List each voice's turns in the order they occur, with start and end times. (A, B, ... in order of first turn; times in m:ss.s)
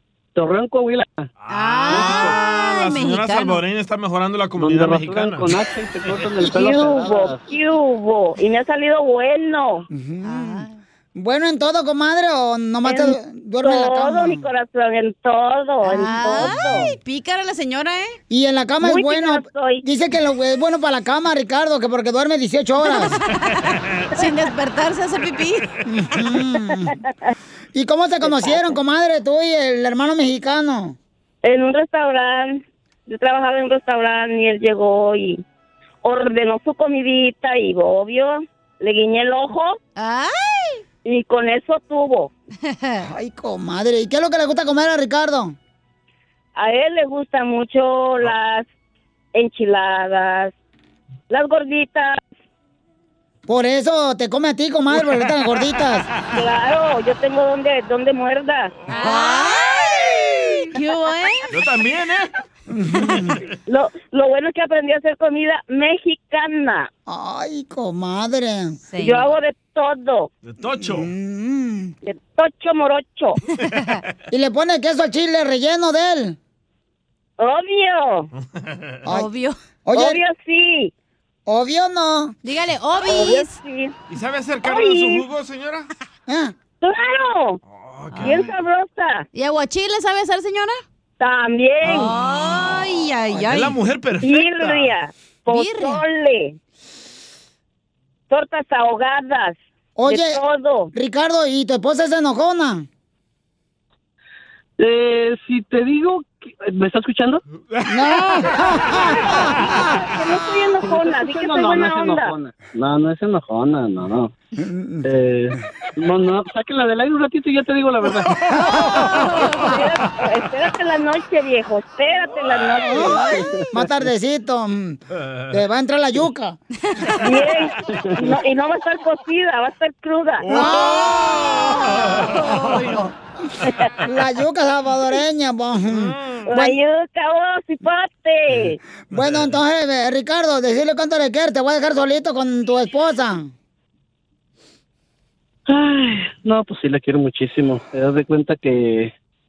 0:00.3-0:01.3 A
0:01.4-0:05.6 B
0:01.5-0:03.6 C
0:01.9-0:02.3 A
0:04.6-0:07.4 A
0:06.5-0:09.9 D
0:09.9-0:14.4 E
0:10.2-0:10.7 C
0:12.8-0:16.9 D
0:15.8-0:18.2 C
0:18.3-0:23.2 E
0:18.8-0:19.8 D
0:22.8-0:25.7 C
0:25.8-0:26.9 E
0:27.7-0:31.0 E
0:28.2-0:28.7 D
0:31.4-0:35.4 D
0:36.0-0:39.8 D
0:40.0-0:40.8 C
0:41.0-0:42.3 D
0:42.7-0:43.0 C
0:43.0-0:45.6 E
0:46.6-0:48.7 D
0:49.3-0:50.5 D
0:51.3-0:52.2 D
0:53.5-0:56.1 E
0:56.3-0:58.7 D
0:58.9-1:00.0 C
1:00.7-1:01.5 C
1:01.5-1:02.3 B
1:02.7-1:03.4 E
1:03.7-1:06.9 D
1:07.1-1:08.8 E
1:08.9-1:09.2 C
1:09.0-1:10.3 D
1:10.4-1:11.1 B
1:10.8-1:11.9 E
1:12.0-1:13.4 D
1:14.3-1:16.4 E
1:17.4-1:18.3 D
1:19.1-1:19.6 C
1:19.8-1:20.2 E
1:19.9-1:20.9 D
1:21.5-1:22.4 E
1:22.4-1:23.6 C
1:23.0-1:23.9 D
1:24.1-1:25.9 B
1:24.6-1:25.2 D
1:26.3-1:26.5 E
1:26.8-1:27.6 D
1:27.7-1:28.5 B
1:28.2-1:29.2 D
1:29.3-1:30.8 C
1:31.2-1:32.1 D
1:31.9-1:33.8 C
1:33.4-1:34.9 B
1:34.2-1:36.6 D
1:35.5-1:36.0 C
1:38.3-1:40.9 D
1:40.0-1:40.4 E
1:40.9-1:42.8 E
1:44.8-1:47.4 A
1:47.9-1:49.5 E
1:49.7-1:52.3 D
1:50.8-1:54.3 A
1:54.6-1:55.1 E
1:55.0-1:58.4 A
1:58.7-1:59.2 E
1:59.2-1:59.5 C
1:59.5-2:03.4 D
2:02.8-2:05.0 E
2:05.5-2:06.6 E
2:07.2-2:10.5 D
2:10.4-2:12.6 B
2:10.4-2:13.1 E
2:12.4-2:13.0 C
2:14.0-2:16.8 E
2:15.9-2:16.4 B
2:16.5-2:18.8 D
2:19.1-2:23.5 E
2:19.1-2:19.6 B
2:25.7-2:29.1 A